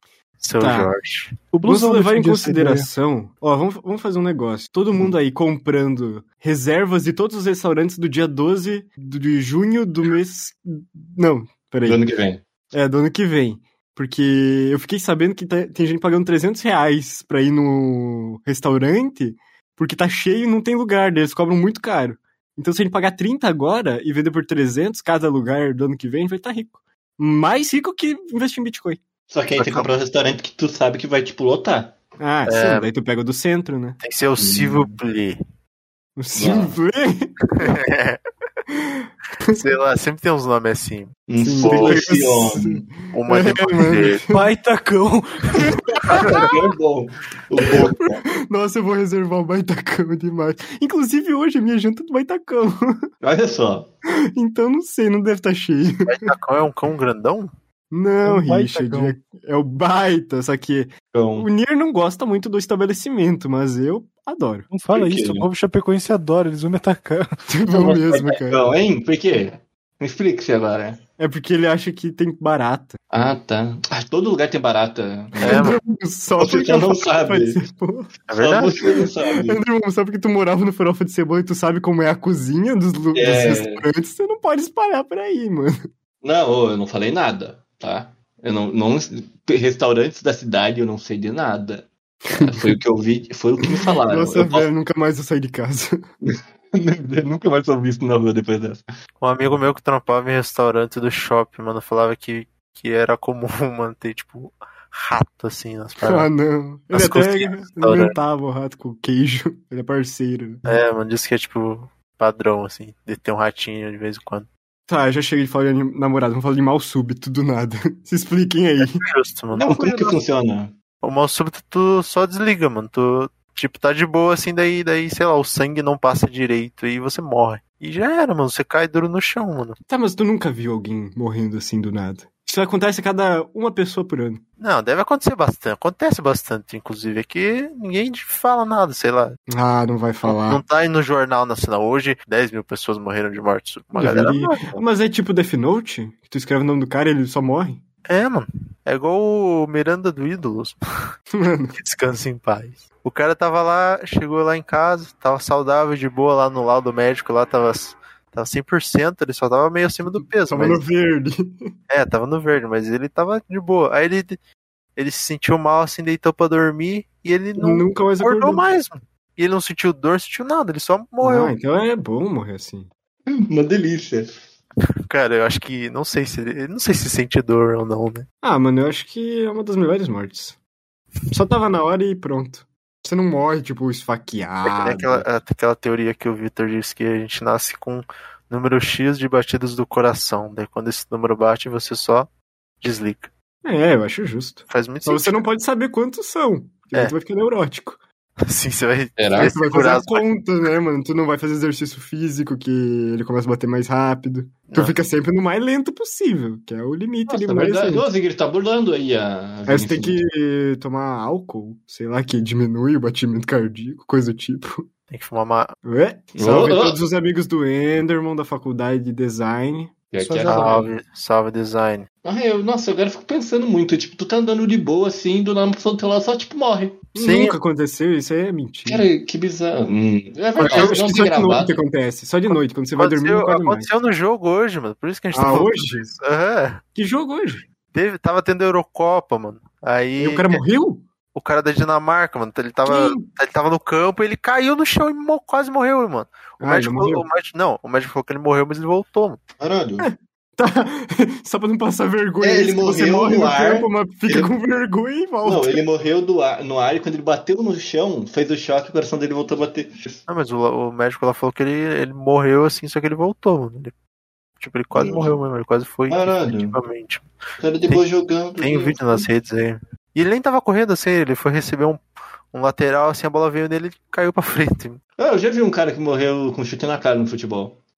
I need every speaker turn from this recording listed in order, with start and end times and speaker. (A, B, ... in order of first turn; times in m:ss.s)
0:00.4-0:01.3 A
0:00.6-0:00.9 B
0:01.5-0:02.9 C
0:01.6-0:12.0 B
0:11.8-0:12.4 D
0:12.7-0:29.0 B
0:29.3-0:32.0 D
0:29.6-0:29.9 A
0:32.2-0:34.0 B
0:32.4-0:32.9 A
0:34.0-0:35.4 A
0:34.4-0:35.0 D
0:36.2-0:37.3 B
0:36.4-0:36.8 D
0:37.6-0:38.2 A
0:39.5-0:42.0 A
0:41.3-0:42.8 D
0:41.4-0:44.5 B
0:43.1-0:44.2 A
0:44.3-0:46.1 C
0:46.1-0:48.2 D
0:47.8-0:53.0 B
0:53.2-0:53.9 D
0:54.3-0:56.1 B
0:56.0-0:57.5 A
0:57.9-1:04.7 B
0:58.2-0:59.2 C
1:01.1-1:01.5 D
1:04.7-1:07.2 C
1:04.9-1:05.5 D
1:07.5-1:08.6 B
1:07.7-1:11.0 D
1:11.2-1:13.0 B
1:13.1-1:15.7 D
1:15.4-1:15.8 A
1:15.4-1:18.1 B
1:16.4-1:17.6 D
1:18.3-1:18.7 A
1:18.3-1:19.6 D
1:19.4-1:25.7 B
1:23.1-1:23.8 D
1:26.2-1:34.7 D
1:32.4-1:32.7 B
1:34.1-1:36.0 B
1:36.2-1:38.8 D
1:39.2-1:46.3 A
1:46.0-1:50.6 B
1:46.9-1:48.1 A
1:50.6-1:54.5 A
1:54.9-2:00.2 B
1:59.0-1:59.7 A
1:59.6-2:00.7 D
2:01.0-2:09.8 A
2:09.8-2:14.4 B
2:14.6-2:19.4 A
2:19.5-2:20.6 B
2:20.2-2:24.8 A
2:23.9-2:27.8 B
2:28.1-2:30.8 A
2:31.4-2:31.8 B
2:31.8-2:40.8 A
2:40.5-2:41.5 B
2:41.9-2:44.4 A
2:45.0-2:51.5 A
2:47.6-2:48.6 B
2:51.2-2:52.9 B
2:53.3-2:54.3 D
2:55.1-2:58.2 A
2:58.4-3:00.6 B
3:01.3-3:05.2 B
3:04.7-3:12.3 A
3:12.8-3:13.3 A
3:13.6-3:18.0 B
3:14.7-3:15.4 A
3:18.5-3:20.3 A
3:19.2-3:19.5 D
3:19.3-3:28.0 B
3:24.7-3:25.0 A
3:27.3-3:30.2 D
3:29.7-3:34.8 B
3:35.1-3:35.7 A
3:35.8-3:39.9 B
3:36.4-3:37.0 D
3:40.1-3:40.9 D
3:40.2-3:40.6 C
3:40.4-3:42.0 A
3:42.2-3:47.0 D
3:47.1-3:49.1 B
3:47.2-3:47.6 A
3:48.8-3:51.8 D
3:50.6-3:51.0 A
3:50.6-3:53.9 B
3:52.5-3:56.8 A
3:55.3-3:56.1 B
3:56.9-3:57.6 B
3:57.9-4:00.6 A
4:00.2-4:01.0 B
4:01.3-4:09.4 A
4:02.8-4:03.3 B
4:06.6-4:07.2 B
4:09.6-4:10.1 D
4:10.0-4:15.8 B
4:12.4-4:14.5 D
4:15.4-4:20.2 D
4:20.3-4:23.9 A
4:24.6-4:27.3 A
4:24.9-4:25.3 D
4:26.1-4:26.8 D
4:27.6-4:29.2 D
4:28.6-4:32.0 A
4:32.5-4:35.0 A
4:35.2-4:37.8 D